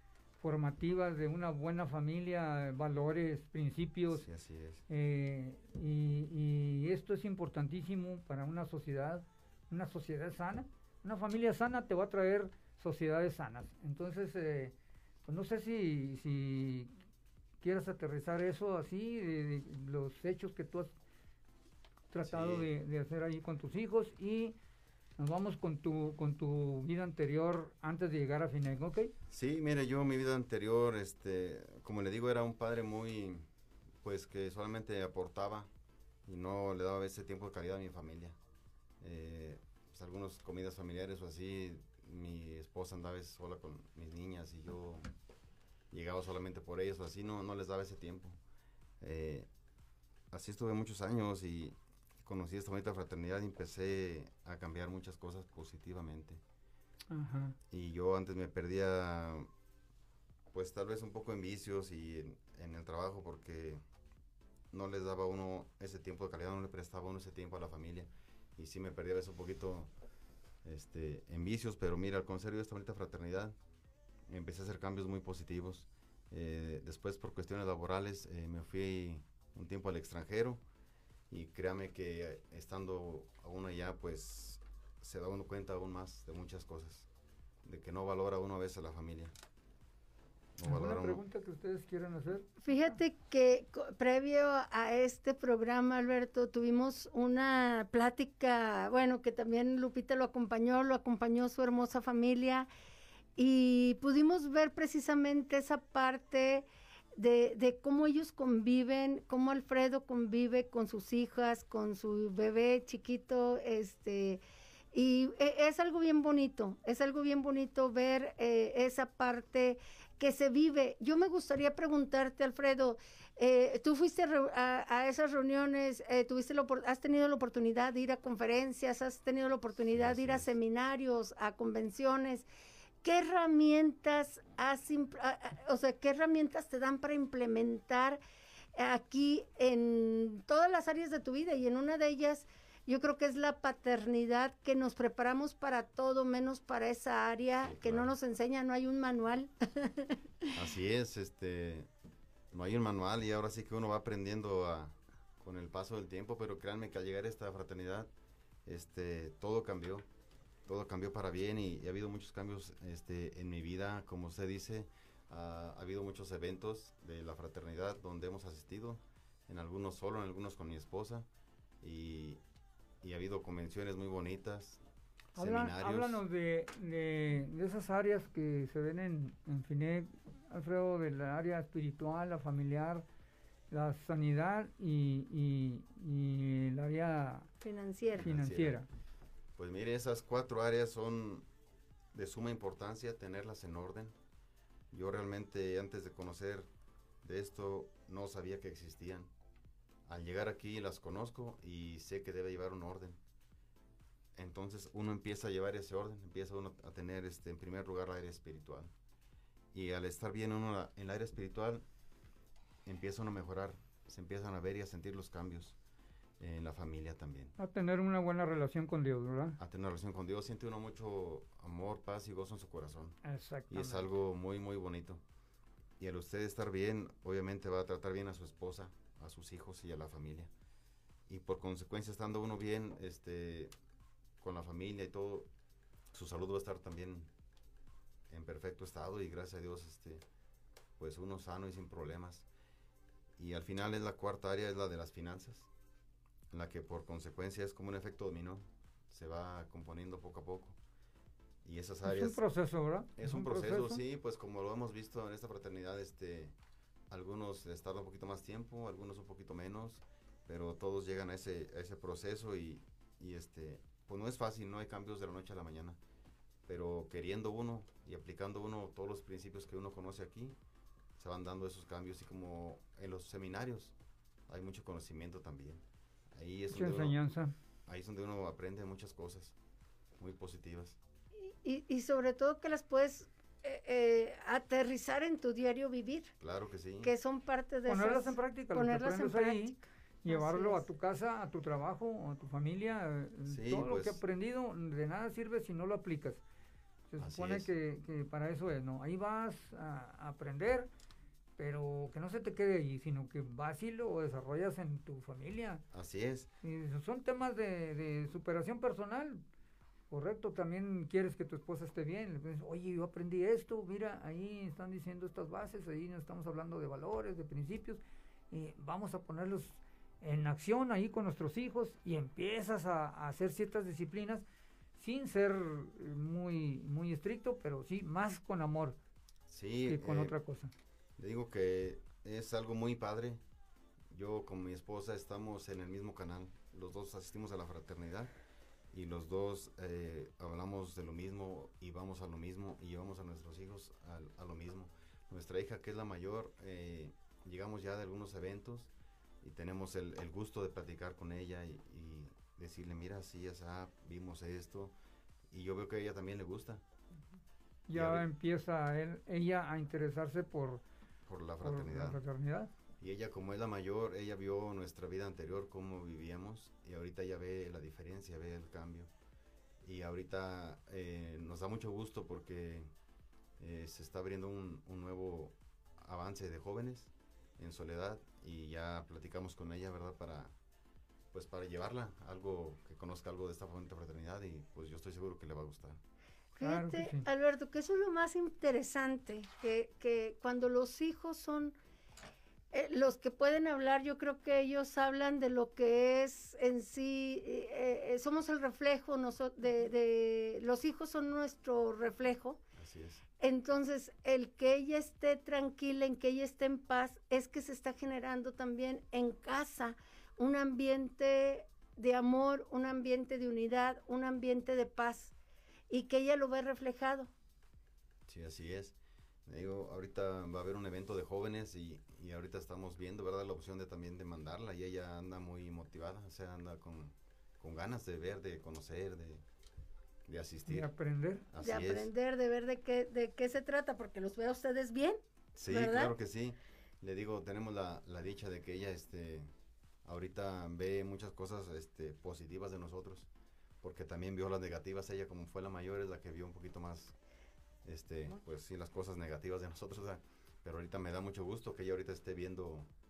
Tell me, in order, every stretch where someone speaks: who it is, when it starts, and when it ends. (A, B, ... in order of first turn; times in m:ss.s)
0:00.4-0:04.2 A
0:04.1-0:04.8 B
0:04.9-0:14.7 A
0:15.3-0:16.9 A
0:17.6-0:20.9 A
0:22.1-0:24.6 A
0:22.2-0:22.7 B
0:25.2-0:29.1 A
0:29.3-0:33.5 B
0:34.0-0:35.7 B
0:36.3-0:38.4 B
0:39.0-0:45.1 B
0:45.9-0:48.4 B
0:49.0-0:49.5 B
0:50.3-0:56.4 B
0:57.1-0:57.6 A
0:57.7-0:59.5 B
1:00.5-1:03.8 B
1:04.7-1:09.9 B
1:10.6-1:13.6 B
1:14.3-1:20.6 B
1:21.3-1:27.1 B
1:27.6-1:29.3 B
1:30.6-1:31.2 B
1:30.6-1:32.5 A
1:32.6-1:42.7 C
1:43.4-1:54.4 C
1:54.9-2:12.5 C
2:09.9-2:10.5 B
2:13.0-2:18.2 C
2:18.8-2:30.5 C
2:27.6-2:28.1 B
2:30.5-2:31.9 B
2:32.5-2:38.1 B
2:38.6-2:40.1 B
2:40.7-2:51.3 B
2:51.8-2:52.4 B
2:53.0-2:54.8 B
2:55.4-2:56.2 B
2:55.4-3:03.1 A
3:03.7-3:07.5 A
3:07.6-3:08.3 C
3:08.2-3:08.8 B
3:08.2-3:08.9 A
3:09.6-3:11.5 B
3:12.1-3:14.2 B
3:14.9-3:16.7 B
3:17.2-3:19.3 B
3:20.1-3:23.2 B
3:24.4-3:28.9 B
3:29.7-3:31.8 B
3:32.8-3:35.8 B
3:36.4-3:37.6 B
3:37.6-3:39.6 A
3:39.6-3:43.2 B
3:43.2-3:44.1 A
3:43.7-3:45.2 B
3:46.0-3:50.5 B
3:51.3-3:53.7 B
3:54.4-3:55.5 B
3:56.1-3:57.3 B
3:58.3-4:00.3 B
4:01.0-4:02.5 B
4:03.4-4:05.7 B
4:06.5-4:10.8 B
4:11.6-4:12.4 B
4:12.0-4:14.0 A
4:13.2-4:16.6 B
4:17.1-4:26.0 B
4:26.7-4:30.6 B
4:31.2-4:33.9 B
4:34.5-4:35.8 B
4:36.3-4:37.2 B
4:36.7-4:37.5 A
4:37.9-4:39.6 B
4:40.2-4:41.0 B
4:41.4-4:46.3 C
4:46.4-4:47.1 B
4:47.0-4:50.8 C
4:47.9-4:56.4 A
4:53.4-4:54.2 B
4:57.1-5:00.9 A
4:57.2-4:57.7 B
5:01.6-5:05.8 A
5:05.9-5:06.5 B
5:06.6-5:09.4 A
5:10.1-5:24.4 A
5:25.0-5:29.0 A
5:29.5-5:30.4 B
5:29.9-5:30.7 A
5:31.2-5:33.4 B
5:34.1-5:38.3 B
5:38.9-5:55.0 B
5:55.5-5:56.8 B
5:57.9-6:00.8 A
5:57.9-5:58.3 B
6:01.3-6:02.2 B
6:01.6-6:02.7 A
6:03.0-6:09.1 B
6:09.8-6:12.9 B
6:13.6-6:20.6 B
6:21.3-6:26.0 B
6:26.6-6:27.2 A
6:26.6-6:31.8 C
6:32.7-6:42.6 C
6:42.8-6:43.2 B
6:43.4-6:55.4 C
6:55.9-6:57.3 C
6:58.3-7:09.4 B
7:10.3-7:10.9 B
7:10.7-7:11.5 A
7:11.5-7:12.1 B
7:11.6-7:16.2 C
7:15.6-7:19.5 B
7:20.0-7:23.3 B
7:23.8-7:27.2 B
7:27.8-7:32.9 B